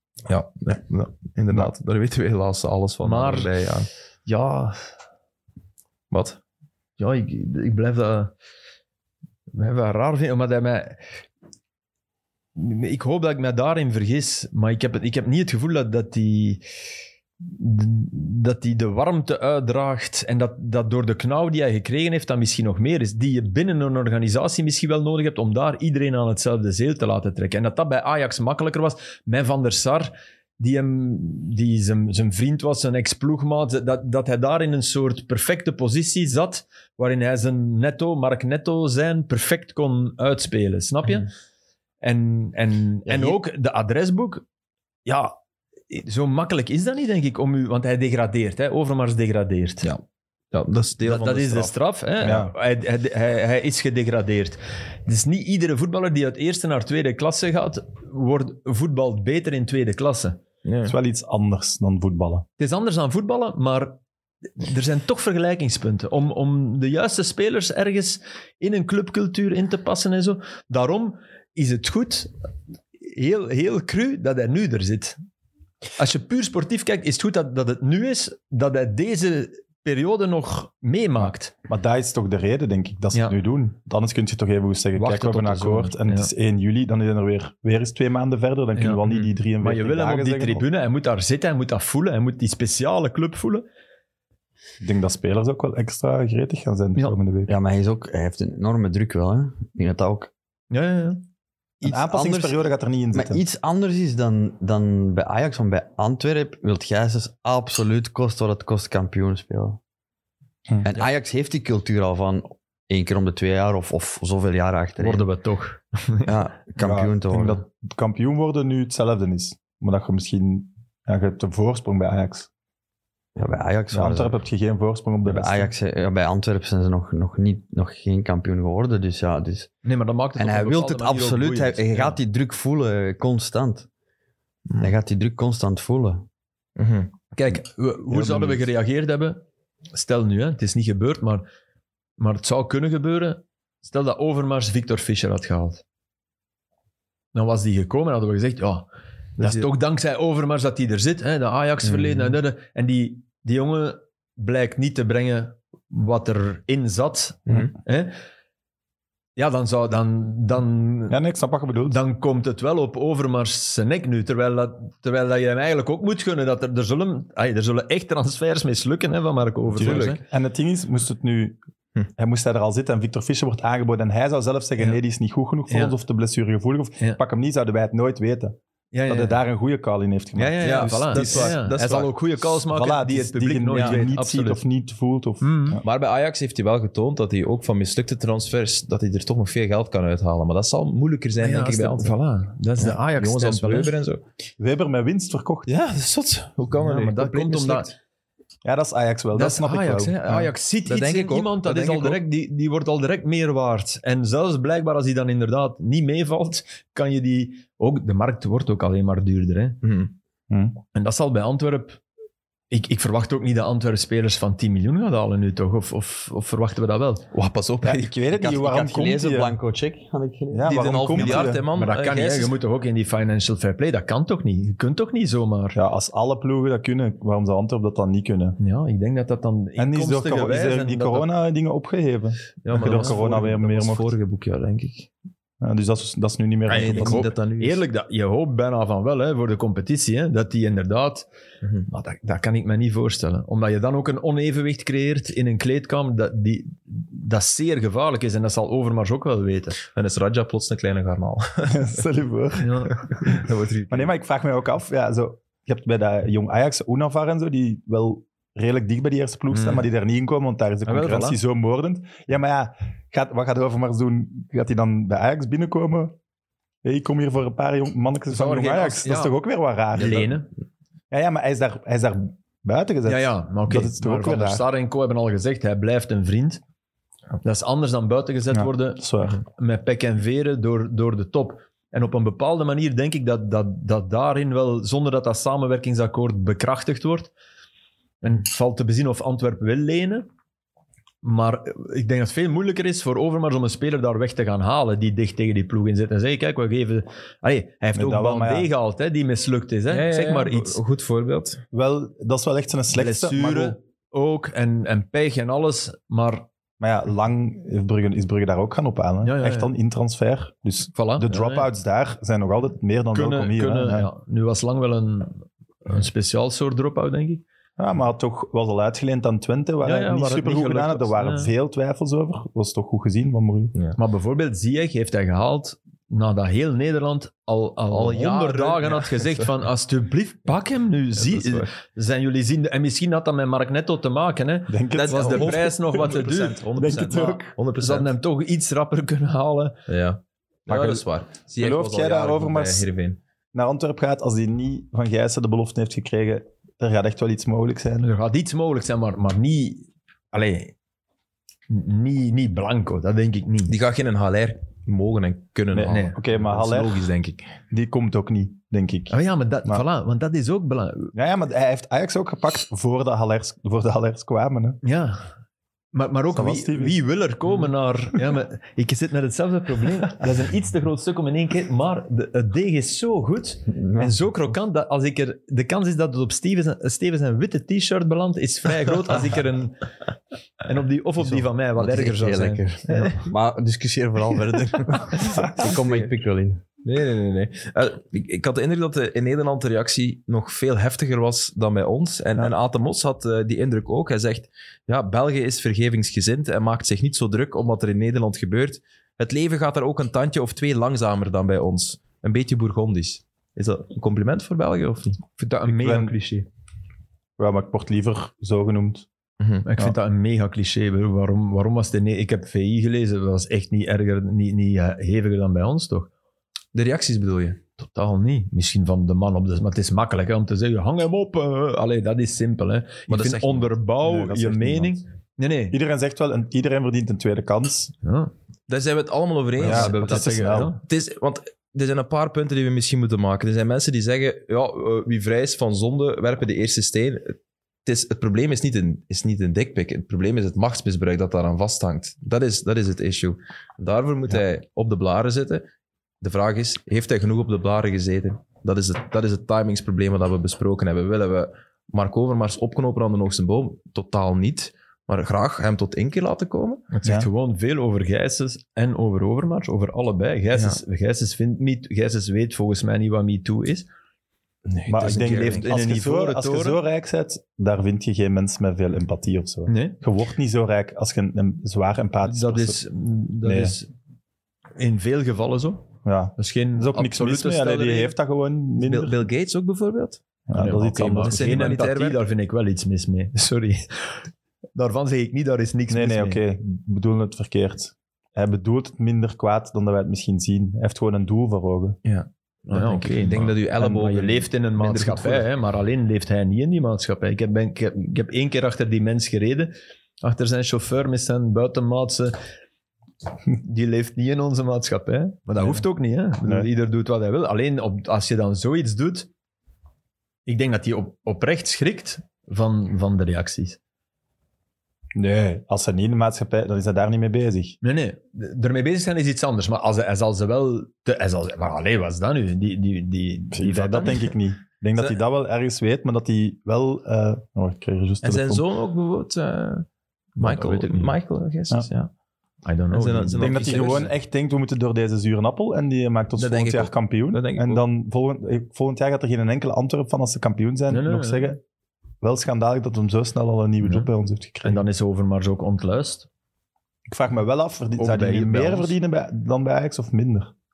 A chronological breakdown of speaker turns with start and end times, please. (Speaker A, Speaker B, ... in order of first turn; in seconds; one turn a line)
Speaker A: 0.3-3.9
Speaker B: 3.0-3.5
Speaker B: 4.3-4.9
Speaker A: 6.1-6.4
Speaker B: 7.0-8.3
Speaker B: 9.5-11.0
Speaker B: 12.6-16.6
Speaker B: 17.4-41.3
Speaker B: 42.0-44.5
Speaker B: 45.0-45.4
Speaker B: 45.9-49.9
Speaker A: 49.8-52.4
Speaker B: 51.0-60.4
Speaker C: 52.2-52.5
Speaker A: 60.6-61.0
Speaker C: 60.9-62.5
Speaker B: 62.6-64.0
Speaker B: 64.6-72.3
Speaker B: 73.0-75.2
Speaker B: 76.0-81.5
Speaker C: 81.2-90.7
Speaker B: 85.0-86.3
Speaker B: 88.8-93.7
Speaker C: 94.8-97.5
Speaker D: 97.5-100.3
Speaker B: 100.7-101.2
Speaker D: 101.8-102.6
Speaker C: 101.8-103.4
Speaker D: 103.1-109.8
Speaker C: 110.7-110.9
Speaker D: 110.8-115.3
Speaker B: 115.0-116.3
Speaker D: 116.2-117.6
Speaker C: 116.8-122.5
Speaker D: 123.4-124.3
Speaker C: 123.9-125.7
Speaker D: 125.3-129.7
Speaker B: 129.8-132.2
Speaker D: 130.4-133.9
Speaker A: 134.7-134.9
Speaker D: 134.8-136.2
Speaker A: 136.8-137.3
Speaker B: 137.4-139.4
Speaker B: 139.9-141.5
Speaker B: 142.2-145.8
Speaker B: 147.3-148.9
Speaker B: 149.4-158.1
Speaker A: 149.4-149.7
Speaker B: 159.4-161.2
Speaker C: 161.1-162.0
Speaker B: 161.8-170.2
Speaker C: 169.8-171.6
Speaker A: 169.8-170.2
Speaker C: 172.2-181.6
Speaker B: 175.7-175.9
Speaker B: 178.9-179.4
Speaker B: 180.4-184.6
Speaker A: 180.6-182.1
Speaker C: 182.7-185.8
Speaker A: 183.7-184.0
Speaker B: 185.4-185.8
Speaker A: 185.8-192.2
Speaker B: 191.4-193.9
Speaker A: 192.8-194.2
Speaker C: 194.6-195.7
Speaker A: 195.7-197.9
Speaker B: 196.8-197.9
Speaker C: 198.6-200.5
Speaker B: 199.3-209.8
Speaker A: 200.8-202.2
Speaker A: 209.8-210.1
Speaker C: 210.5-210.8
Speaker B: 210.9-212.0
Speaker B: 212.7-217.2
Speaker A: 217.3-218.1
Speaker C: 217.8-219.6
Speaker D: 218.3-221.4
Speaker C: 220.5-221.7
Speaker A: 220.7-222.6
Speaker B: 221.7-225.8
Speaker C: 225.7-228.6
Speaker B: 228.6-231.3
Speaker C: 229.8-234.1
Speaker A: 232.6-235.1
Speaker B: 232.8-233.2
Speaker C: 235.6-237.2
Speaker B: 236.7-241.3
Speaker A: 236.7-237.8
Speaker A: 241.6-241.9
Speaker B: 241.9-249.8
Speaker A: 249.9-252.0
Speaker C: 251.7-253.4
Speaker B: 252.6-253.0
Speaker A: 253.1-254.1
Speaker C: 253.9-266.2
Speaker B: 259.5-259.9
Speaker B: 260.9-261.4
Speaker C: 266.8-270.5
Speaker B: 268.3-269.4
Speaker B: 269.9-270.5
Speaker C: 271.1-274.7
Speaker B: 273.1-276.6
Speaker B: 277.4-287.3
Speaker C: 278.5-279.4
Speaker B: 288.2-290.3
Speaker B: 291.2-300.8
Speaker C: 297.9-298.7
Speaker A: 299.9-301.6
Speaker C: 301.7-303.8
Speaker B: 302.9-306.5
Speaker C: 306.8-314.1
Speaker B: 309.2-309.7
Speaker B: 310.9-311.7
Speaker B: 313.1-317.4
Speaker C: 317.8-323.7
Speaker B: 319.8-321.5
Speaker B: 324.0-339.8
Speaker A: 327.9-329.5
Speaker A: 331.2-331.7
Speaker C: 334.7-336.0
Speaker A: 334.9-338.1
Speaker C: 336.8-337.5
Speaker A: 339.9-343.2
Speaker C: 340.7-341.1
Speaker C: 341.6-342.9
Speaker C: 343.5-348.1
Speaker B: 348.0-350.7
Speaker B: 351.7-353.8
Speaker A: 353.7-357.5
Speaker C: 355.7-357.1
Speaker B: 355.8-356.2
Speaker C: 357.7-359.9
Speaker B: 359.1-361.1
Speaker C: 361.1-364.8
Speaker B: 364.8-365.3
Speaker B: 365.9-379.8
Speaker C: 366.3-367.0
Speaker D: 373.7-374.1
Speaker B: 380.6-383.2
Speaker D: 381.8-386.6
Speaker A: 385.6-386.1
Speaker A: 386.8-405.2
Speaker B: 405.4-406.5
Speaker C: 405.7-406.1
Speaker C: 407.4-409.1
Speaker A: 409.4-409.7
Speaker B: 409.6-416.1
Speaker A: 416.7-417.6
Speaker B: 417.8-425.8
Speaker A: 423.1-423.7
Speaker C: 424.0-425.0
Speaker C: 425.7-427.9
Speaker B: 428.0-428.3
Speaker A: 428.7-445.6
Speaker B: 429.6-430.8
Speaker C: 429.6-430.7
Speaker A: 446.2-456.9
Speaker B: 456.9-463.9
Speaker A: 464.7-465.7
Speaker C: 464.9-472.8
Speaker B: 465.1-466.8
Speaker B: 469.7-470.0
Speaker B: 472.2-473.9
Speaker C: 473.4-473.8
Speaker B: 474.8-478.1
Speaker C: 476.1-479.2
Speaker A: 478.8-480.2
Speaker C: 480.5-481.8
Speaker B: 480.5-484.2
Speaker A: 481.2-482.2
Speaker B: 484.8-486.4
Speaker C: 485.9-492.0
Speaker A: 492.1-495.5
Speaker B: 492.7-502.4
Speaker B: 503.5-509.3
Speaker B: 510.5-513.8
Speaker C: 515.2-517.8
Speaker B: 517.8-524.3
Speaker C: 523.5-528.6
Speaker A: 528.2-529.9
Speaker B: 530.4-531.2
Speaker A: 530.4-532.1
Speaker B: 532.6-534.1
Speaker A: 532.9-534.1
Speaker C: 533.4-541.6
Speaker A: 536.4-537.8
Speaker B: 540.9-541.5
Speaker C: 542.2-544.8
Speaker B: 544.6-546.3
Speaker C: 547.1-550.5
Speaker B: 548.0-548.9